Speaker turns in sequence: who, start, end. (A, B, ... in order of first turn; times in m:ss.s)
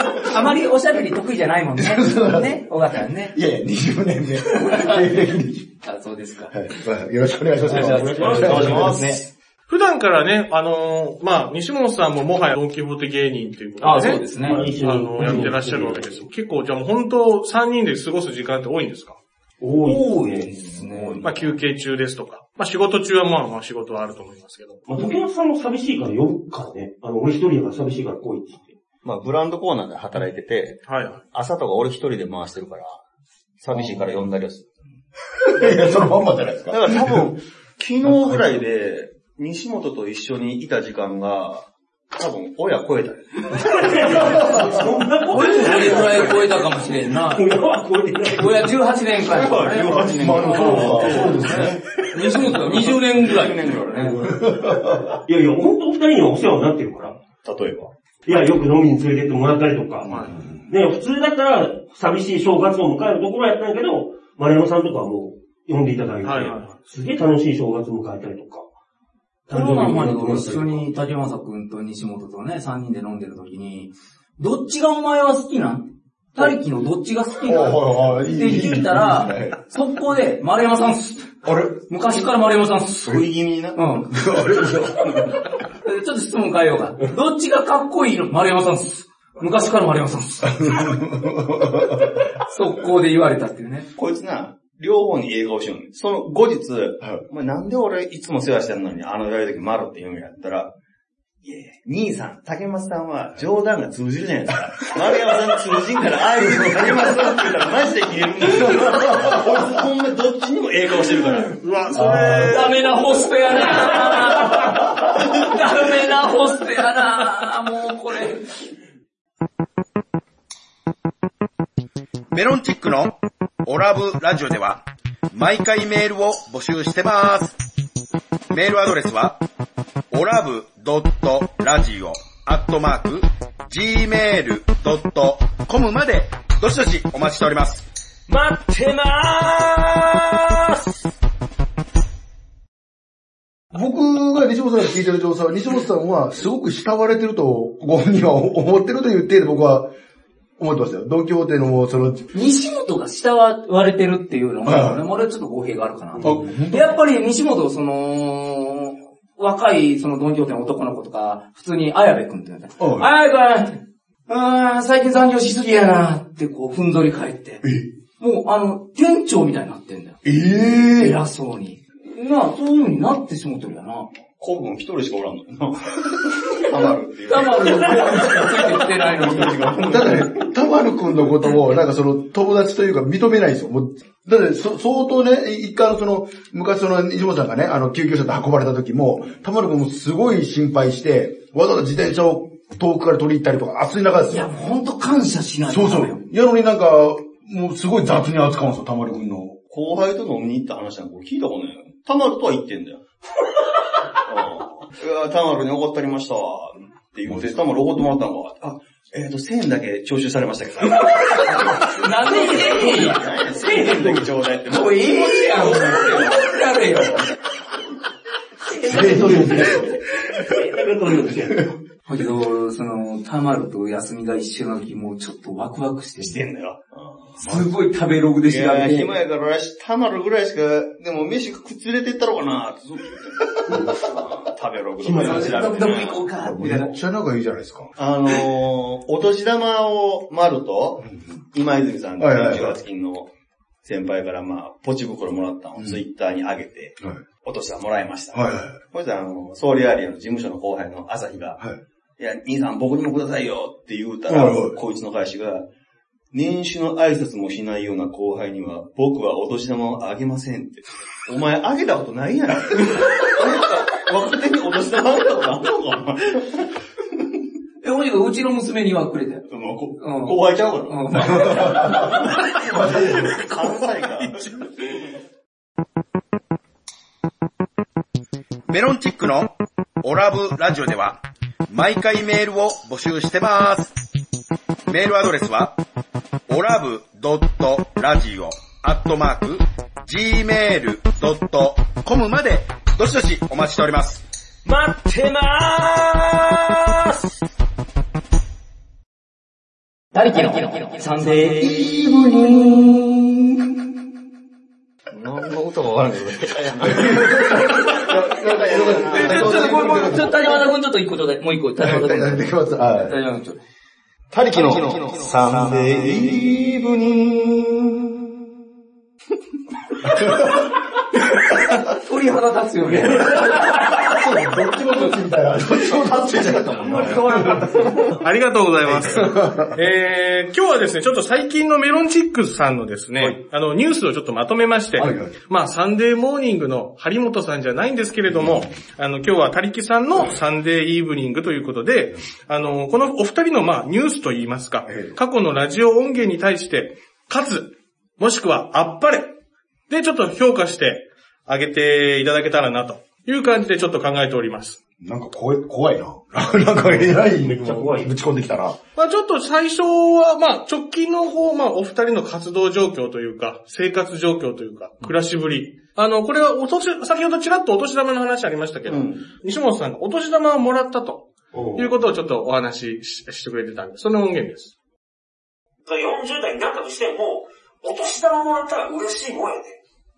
0:00.2-0:03.4 A
0:01.8-0:02.7 B
0:03.3-0:05.7 B
0:04.5-0:05.0 A
0:05.8-0:06.5 A
0:06.5-0:08.8 B
0:07.7-0:09.2 A
0:07.7-0:09.0 C
0:08.2-0:09.3 D
0:09.7-0:14.2 E
0:13.8-0:14.7 A
0:13.8-0:16.3 C
0:14.8-0:19.2 E
0:19.6-0:20.5 C
0:19.8-0:21.2 A
0:20.6-0:21.6 D
0:21.2-0:24.8 E
0:24.9-0:28.7 C
0:29.0-0:33.0 D
0:30.9-0:31.2 E
0:33.6-0:34.7 D
0:35.4-0:37.3 B
0:36.7-0:44.0 D
0:38.0-0:38.4 B
0:43.5-0:48.8 C
0:45.3-0:47.5 A
0:48.3-0:50.0 A
0:49.3-0:54.9 D
0:49.3-0:51.4 C
0:49.9-0:51.8 B
0:50.7-0:54.2 A
0:54.2-0:55.2 B
0:55.2-0:57.2 C
0:57.4-0:57.9 D
0:58.2-1:08.7 C
1:00.1-1:00.6 B
1:06.2-1:06.8 E
1:09.5-1:10.8 C
1:09.5-1:24.1 A
1:17.5-1:19.6 B
1:21.4-1:21.8 B
1:23.0-1:23.8 D
1:24.1-1:25.5 B
1:25.8-1:31.0 A
1:30.6-1:32.2 B
1:32.1-1:33.9 A
1:33.9-1:40.7 D
1:41.4-1:51.6 D
1:46.4-1:47.4 B
1:48.7-1:49.4 B
1:51.1-1:52.8 E
1:51.9-1:52.6 B
1:52.4-1:58.6 A
2:02.3-2:07.6 F
2:08.5-2:09.4 F
2:10.1-2:17.9 F
2:18.3-2:20.9 C
2:23.7-2:29.9 B
2:30.6-2:32.3 B
2:32.3-2:47.7 A
2:34.6-2:35.0 B
2:36.1-2:36.5 C
2:36.2-2:36.9 B
2:42.8-2:43.1 B
2:47.6-2:47.9 B
2:48.2-2:50.2 A
2:50.2-2:51.2 B
2:51.0-2:54.1 A
2:54.4-3:00.3 D
2:57.3-3:00.2 A
2:59.8-3:14.6 B
3:14.3-3:16.2 A
3:15.7-3:19.6 B
3:19.7-3:23.0 D
3:24.2-3:36.2 D
3:27.2-3:27.6 B
3:31.2-3:33.3 A
3:32.2-3:34.3 C
3:34.7-3:37.2 A
3:35.8-3:36.3 C
3:38.6-3:41.7 C
3:38.8-3:40.0 B
3:42.1-3:46.4 A
3:46.2-3:47.4 D
3:47.4-3:49.1 A
3:47.4-3:47.7 B
3:48.4-3:56.2 D
3:55.1-3:57.0 A
3:55.1-3:55.4 B
3:56.4-3:57.9 B
3:58.0-4:03.3 D
4:01.0-4:01.4 B
4:02.2-4:02.8 B
4:03.8-4:11.6 D
4:08.3-4:08.8 B
4:12.2-4:15.7 D
4:14.3-4:14.8 B
4:16.3-4:26.7 D
4:27.8-4:29.4 A
4:29.5-4:35.0 D
4:30.0-4:32.3 A
4:31.4-4:32.1 B
4:32.7-4:33.4 B
4:38.7-4:43.9 F
4:44.9-4:45.8 F
4:46.5-4:54.2 F
4:54.6-4:57.2 C
5:00.1-5:01.8 A
5:01.4-5:03.5 B
5:05.1-5:10.3 D
5:06.8-5:10.4 B
5:09.1-5:13.6 A
5:11.8-5:13.2 B
5:14.3-5:18.2 D
5:14.7-5:15.1 F
5:15.1-5:16.6 B
5:20.1-5:20.5 B
5:21.9-5:24.2 A
5:23.9-5:28.0 B
5:26.0-5:27.5 D
5:26.7-5:28.1 C
5:28.2-5:49.4 E
5:29.0-5:29.7 B
5:35.0-5:35.3 B
5:49.9-5:54.8 E
5:55.0-5:58.8 B
5:57.3-5:58.1 C
5:59.0-6:14.7 E
6:08.9-6:09.2 D
6:11.5-6:11.9 C
6:15.8-6:19.8 C